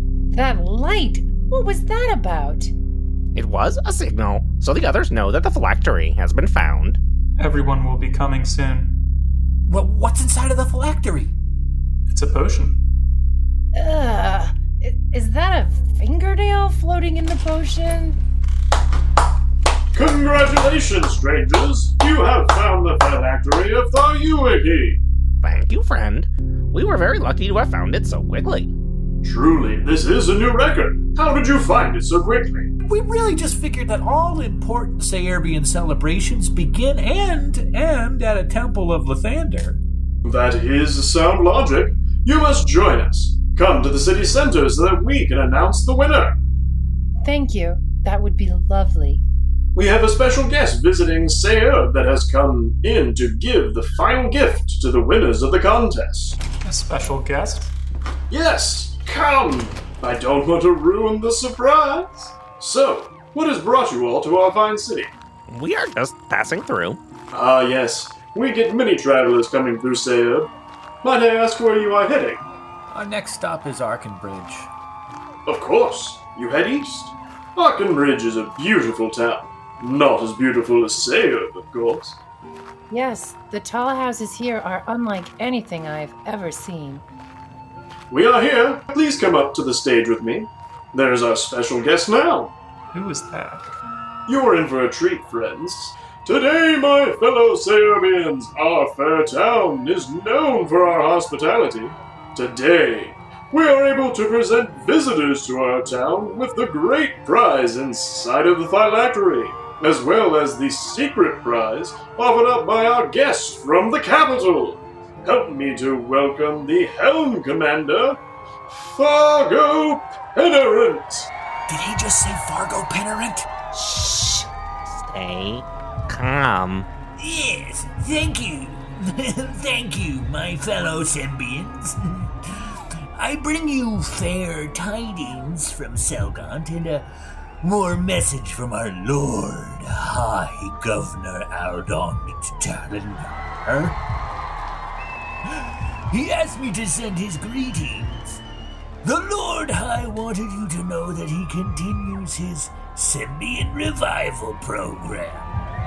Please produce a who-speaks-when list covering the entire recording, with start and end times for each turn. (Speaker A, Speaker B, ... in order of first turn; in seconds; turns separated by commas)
Speaker A: 0.3-2.7, Speaker B: 3.3-7.0, Speaker C: 7.4-9.0, Speaker D: 9.7-11.3, Speaker C: 12.1-12.8, Speaker A: 13.7-18.2, Speaker E: 19.9-25.0, Speaker B: 25.4-28.7, Speaker E: 29.2-32.7, Speaker D: 32.8-39.8, Speaker E: 40.2-46.3, Speaker A: 47.2-49.2, Speaker E: 49.7-56.4, Speaker C: 56.5-57.7, Speaker E: 58.3-65.1, Speaker B: 65.5-67.0, Speaker E: 67.3-70.5, Speaker E: 71.0-72.5, Speaker D: 72.9-74.7, Speaker E: 75.5-82.2, Speaker A: 82.9-87.0, Speaker E: 88.1-92.5, Speaker C: 92.9-93.7, Speaker E: 94.3-118.2, Speaker E: 118.7-121.3, Speaker D: 121.7-123.5, Speaker B: 123.8-126.9, Speaker D: 127.2-137.1, Speaker D: 137.6-144.0, Speaker D: 145.4-148.4, Speaker D: 149.0-155.5